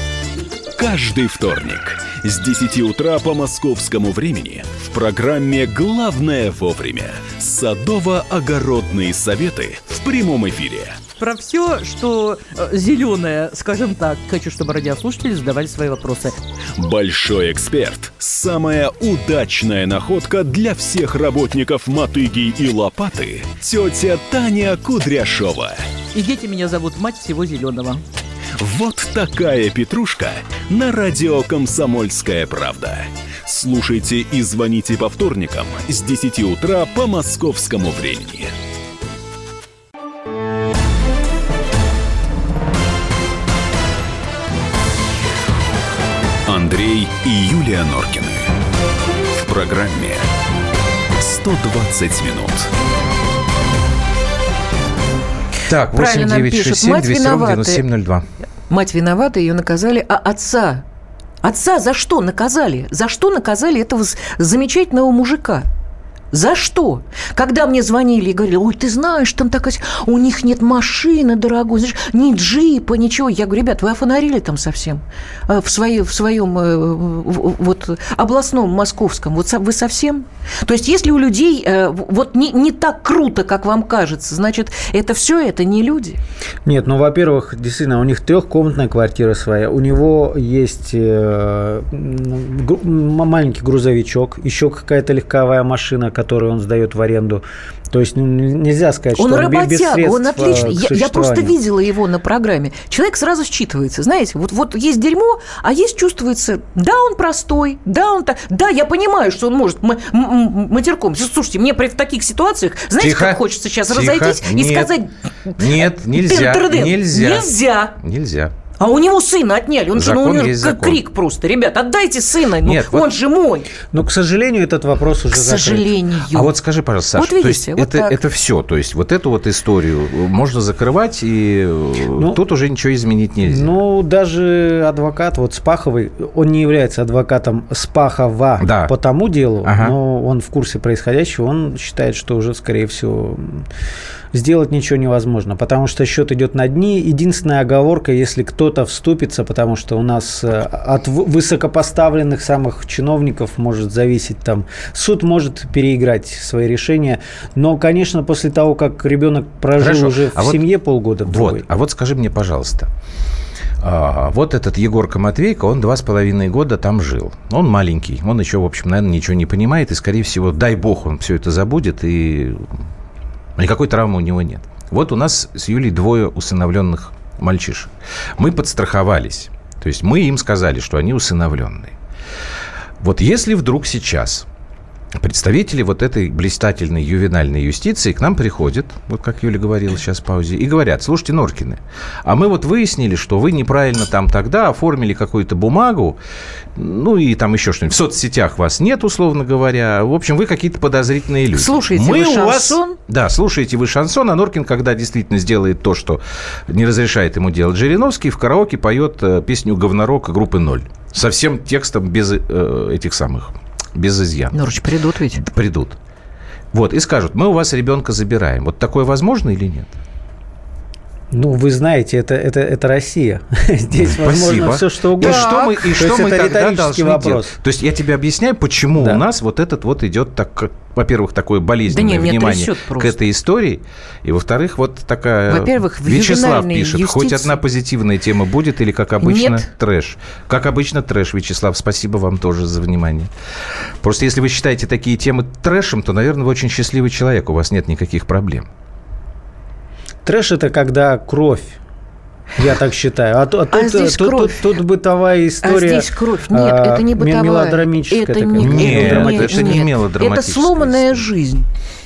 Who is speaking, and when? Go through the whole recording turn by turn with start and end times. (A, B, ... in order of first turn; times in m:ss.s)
0:00.8-0:11.0 A
0:11.2-0:16.3 B
0:16.8-0:25.8 A
0:26.1-0:28.0 B
0:28.6-0:38.5 A
0:46.5-0:48.5 A
0:49.3-0:50.3 A
0:51.2-0:52.7 A
0:55.6-0:58.2 C
0:55.9-0:57.8 D
0:58.7-1:00.8 D
1:01.4-1:05.6 D
1:06.3-1:26.2 D
1:26.6-1:41.6 E
1:39.2-1:57.9 D
1:53.0-1:54.9 C
1:55.6-1:58.5 C
1:58.8-2:03.7 D
1:59.9-2:01.0 C
2:02.6-2:03.1 C
2:03.8-2:05.9 E
2:05.3-2:06.5 D
2:06.3-2:13.7 C
2:07.2-2:08.2 D
2:13.4-2:23.6 E
2:18.6-2:18.9 C
2:19.6-2:19.9 C
2:24.3-2:41.6 E
2:39.8-2:40.6 C
2:41.3-2:42.9 C
2:43.8-2:52.6 C
2:53.6-3:01.9 C
3:03.0-3:04.5 C
3:05.1-3:16.2 C
3:16.8-3:34.6 C
3:21.6-3:23.0 D
3:34.5-3:35.4 D
3:35.4-3:36.0 C
3:36.7-3:39.9 C
3:41.3-3:47.6 E
3:44.1-4:03.3 C
3:45.2-3:45.5 D
3:48.9-3:49.2 E
3:51.9-3:53.1 D
3:55.5-3:57.5 D
3:59.2-3:59.7 D
4:04.0-4:08.7 C
4:10.2-4:11.8 E
4:12.6-4:19.9 E
4:13.7-4:14.6 D
4:15.6-4:21.6 D
4:18.6-4:21.3 C